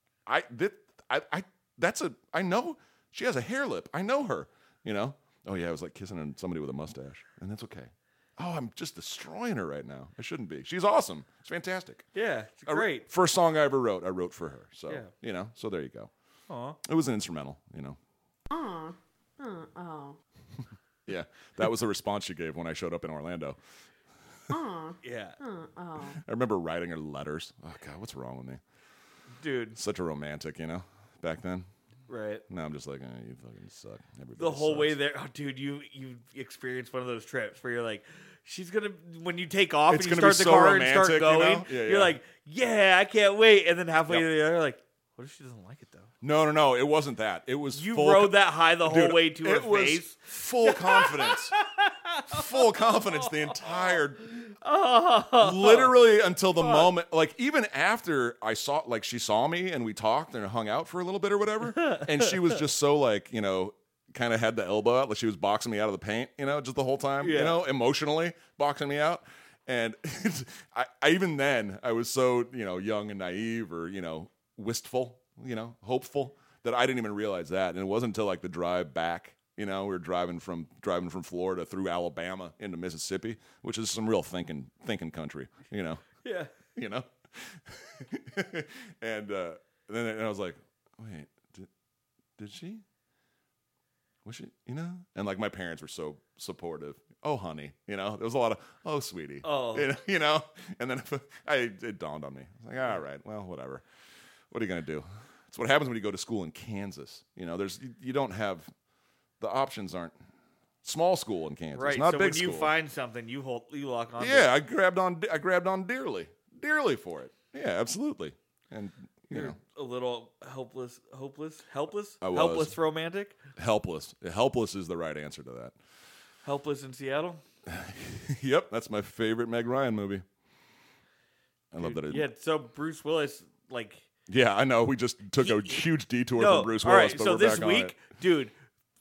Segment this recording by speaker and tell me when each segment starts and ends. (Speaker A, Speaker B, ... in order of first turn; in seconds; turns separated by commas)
Speaker A: 0.3-12.1, Speaker B: 12.2-13.1, Speaker A: 12.7-16.1, Speaker B: 16.5-16.8, Speaker A: 16.8-18.0, Speaker C: 18.5-20.2, Speaker A: 21.1-23.6, Speaker C: 24.5-26.2, Speaker B: 25.0-25.4, Speaker A: 26.0-28.6, Speaker B: 29.4-29.8, Speaker A: 29.8-31.7, Speaker B: 32.1-32.4, Speaker A: 32.5-35.0, Speaker B: 34.4-46.1, Speaker A: 39.9-42.2, Speaker A: 46.2-51.5, Speaker B: 47.7-54.0, Speaker A: 52.3-54.5, Speaker B: 54.6-56.0, Speaker A: 55.4-86.0, Speaker B: 56.6-56.9, Speaker B: 61.7-62.6, Speaker B: 67.2-67.6, Speaker B: 86.2-86.5, Speaker A: 86.8-91.7, Speaker A: 92.4-92.8, Speaker A: 94.2-103.8, Speaker B: 99.4-99.9, Speaker A: 104.5-108.7, Speaker A: 109.4-110.1, Speaker A: 110.8-112.7, Speaker B: 111.7-114.5, Speaker A: 114.2-119.6, Speaker B: 119.3-123.4, Speaker A: 122.2-122.7, Speaker A: 123.6-125.8, Speaker B: 126.5-127.4, Speaker A: 127.7-130.2, Speaker A: 131.7-132.3, Speaker B: 131.8-134.1, Speaker A: 134.3-138.0, Speaker B: 135.4-135.8, Speaker B: 136.3-138.5